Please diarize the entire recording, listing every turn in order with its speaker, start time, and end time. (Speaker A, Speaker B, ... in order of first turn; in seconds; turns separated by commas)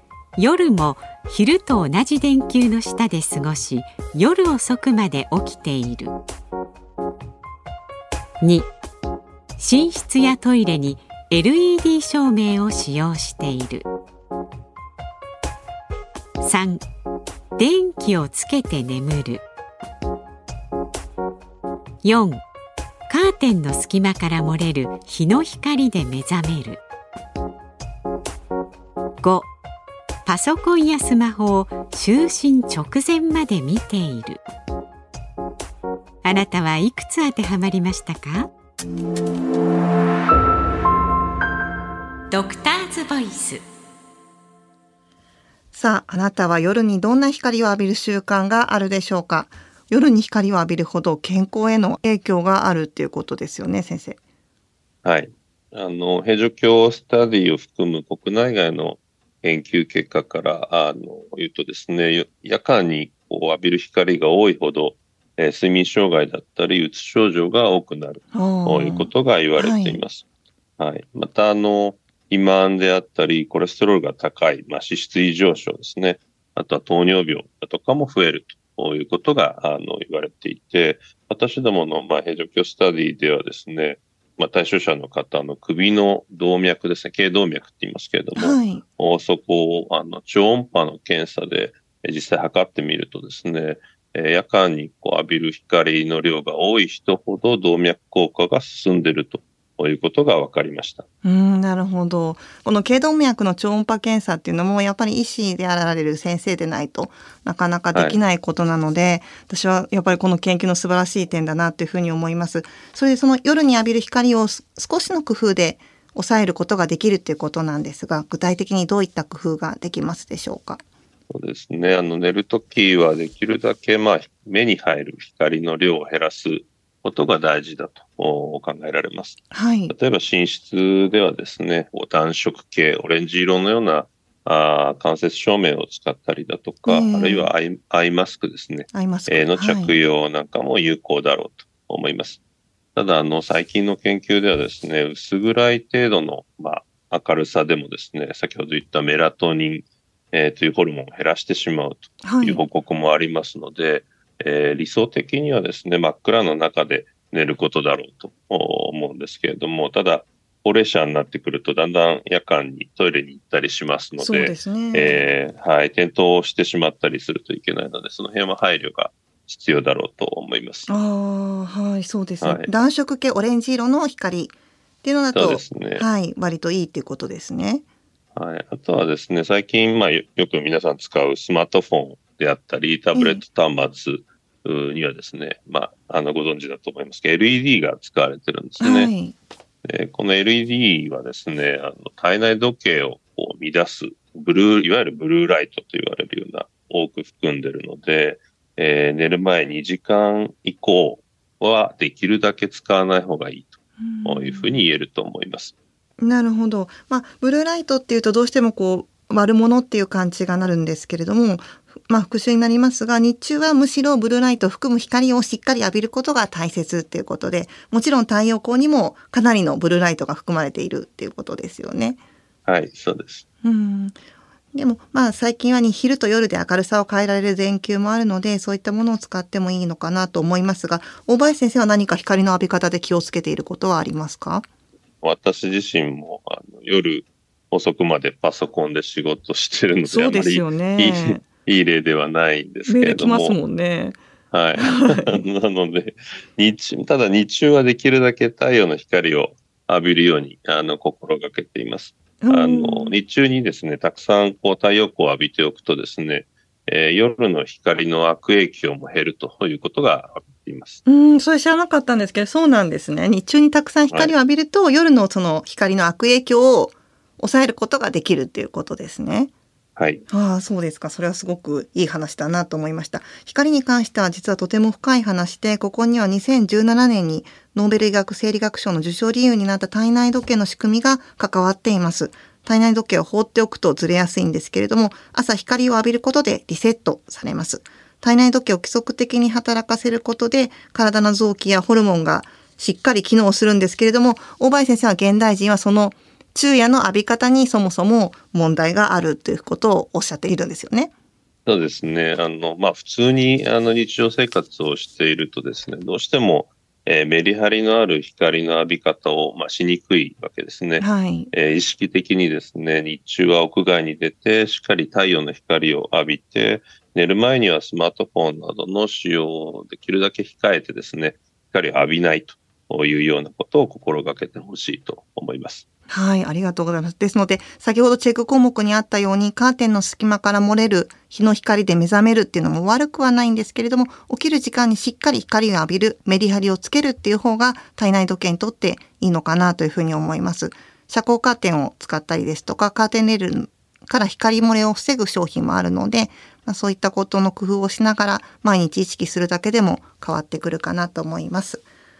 Speaker A: 0.4-6.2, Speaker A: 8.4-8.7, Speaker A: 9.6-13.8, Speaker A: 16.4-16.8, Speaker A: 17.6-19.4, Speaker A: 22.0-22.4, Speaker A: 23.1-26.8, Speaker A: 29.2-29.5, Speaker A: 30.2-34.4, Speaker A: 36.2-38.5, Speaker A: 42.3-43.6, Speaker B: 45.7-54.2, Speaker C: 55.0-70.2, Speaker B: 68.3-70.0, Speaker C: 70.8-101.0, Speaker B: 88.3-88.8, Speaker B: 101.2-120.8, Speaker C: 107.9-108.2, Speaker C: 121.3-129.4, Speaker B: 129.5-129.9, Speaker C: 129.9-142.4, Speaker B: 136.8-137.5, Speaker B: 138.9-139.9, Speaker C: 142.9-170.9, Speaker B: 152.2-152.6, Speaker B: 164.2-165.2, Speaker B: 170.9-177.8, Speaker C: 172.4-172.7, Speaker C: 175.3-176.1, Speaker C: 178.3-189.1, Speaker B: 183.1-183.4, Speaker B: 188.8-189.3, Speaker C: 189.8-205.7, Speaker B: 204.0-204.8, Speaker B: 206.2-222.2, Speaker C: 222.7-223.4, Speaker B: 223.6-224.2, Speaker B: 224.7-234.7, Speaker C: 235.2-243.6, Speaker B: 240.1-241.4, Speaker B: 242.9-244.2, Speaker C: 244.5-261.0, Speaker B: 244.8-245.4, Speaker B: 252.4-253.2, Speaker B: 261.1-269.5, Speaker C: 269.9-270.2, Speaker B: 270.3-301.1, Speaker C: 301.6-325.8, Speaker B: 311.0-311.5, Speaker B: 326.1-351.8